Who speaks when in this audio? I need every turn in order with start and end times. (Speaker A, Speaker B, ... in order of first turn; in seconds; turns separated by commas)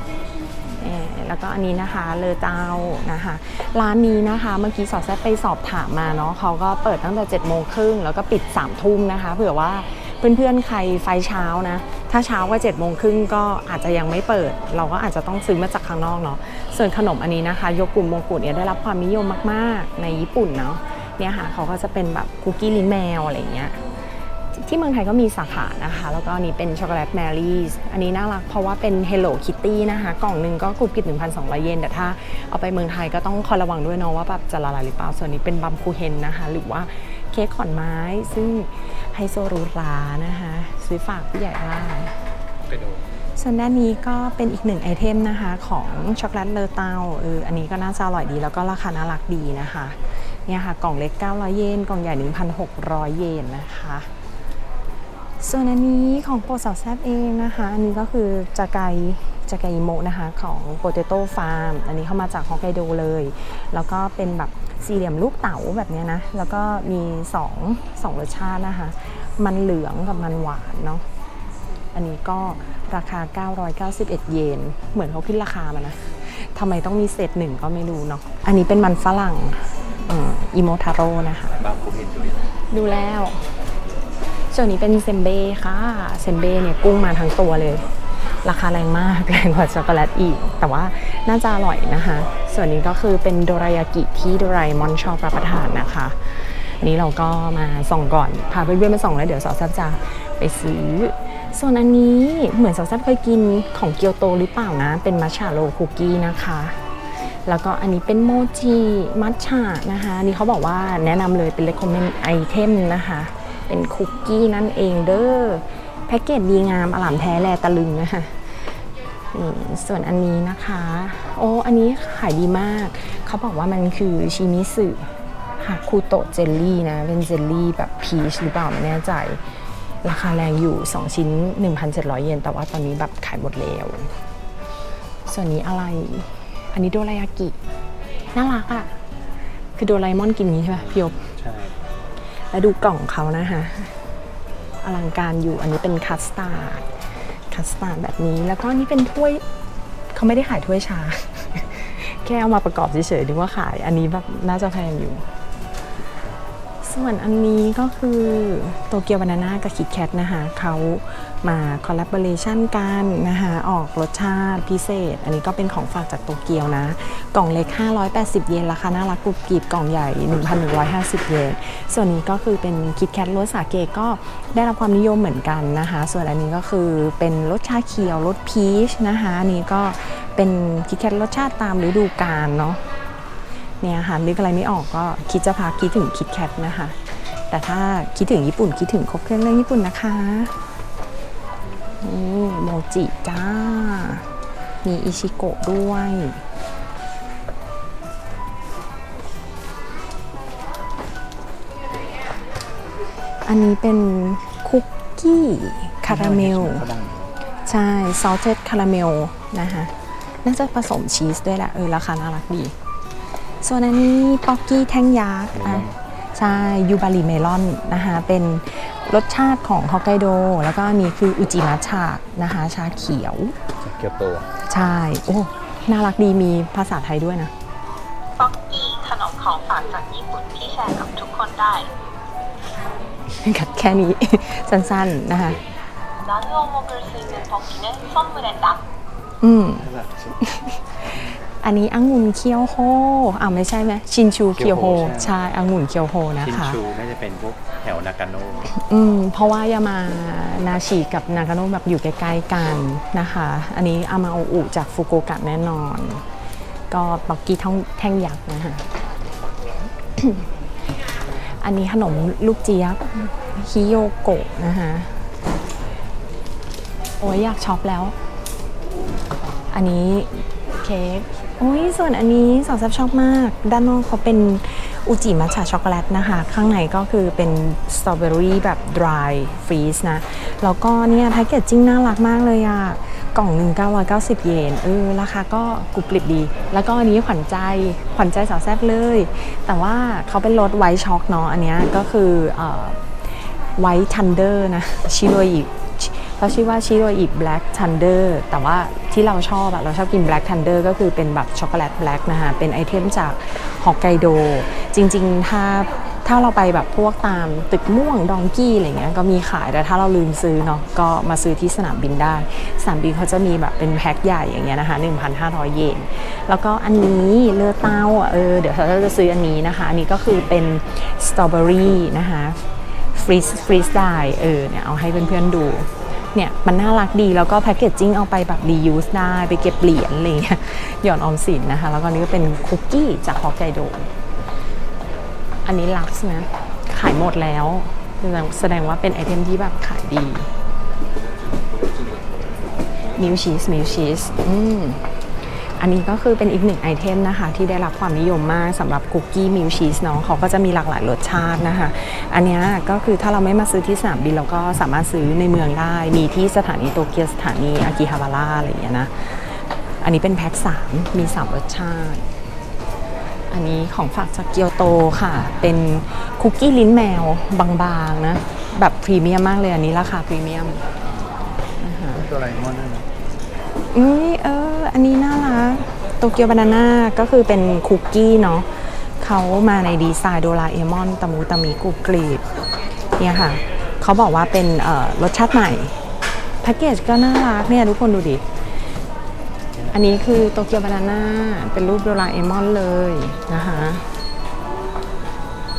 Speaker A: 0.8-23.8, Speaker A: 24.5-42.2, Speaker A: 43.4-54.1, Speaker A: 55.4-71.0, Speaker A: 71.9-81.6, Speaker B: 81.6-82.4, Speaker A: 82.7-83.5, Speaker A: 84.5-87.9, Speaker A: 88.4-106.8, Speaker A: 107.5-118.4, Speaker A: 119.3-129.4, Speaker A: 130.0-134.1, Speaker A: 135.3-137.6, Speaker A: 138.3-138.9, Speaker A: 139.8-141.2, Speaker B: 140.8-141.8, Speaker A: 142.5-143.9, Speaker A: 144.8-146.9, Speaker A: 147.5-149.4, Speaker A: 150.1-155.3, Speaker A: 156.8-182.8, Speaker A: 183.8-187.0, Speaker A: 187.5-190.5, Speaker A: 192.0-194.3, Speaker A: 194.8-196.4, Speaker A: 203.4-206.9, Speaker B: 206.1-207.3, Speaker A: 207.7-209.9, Speaker A: 210.4-212.8, Speaker A: 213.6-223.6, Speaker B: 215.6-215.9, Speaker B: 223.8-224.5, Speaker A: 224.7-227.5, Speaker C: 228.4-231.9, Speaker A: 233.3-235.6, Speaker C: 236.2-238.8, Speaker A: 239.4-246.8, Speaker B: 239.9-240.2, Speaker B: 244.5-245.3, Speaker B: 246.4-248.7, Speaker A: 248.7-256.2, Speaker A: 256.9-258.9, Speaker A: 260.2-260.5, Speaker A: 261.6-265.1, Speaker A: 267.2-268.2, Speaker A: 269.7-322.6, Speaker A: 323.1-334.1, Speaker A: 335.6-340.5, Speaker A: 343.1-345.1, Speaker A: 345.8-362.3, Speaker A: 363.5-370.8, Speaker A: 371.8-372.3, Speaker B: 372.2-373.1, Speaker A: 373.9-382.5, Speaker A: 383.2-386.0, Speaker A: 386.6-388.4, Speaker A: 389.9-394.1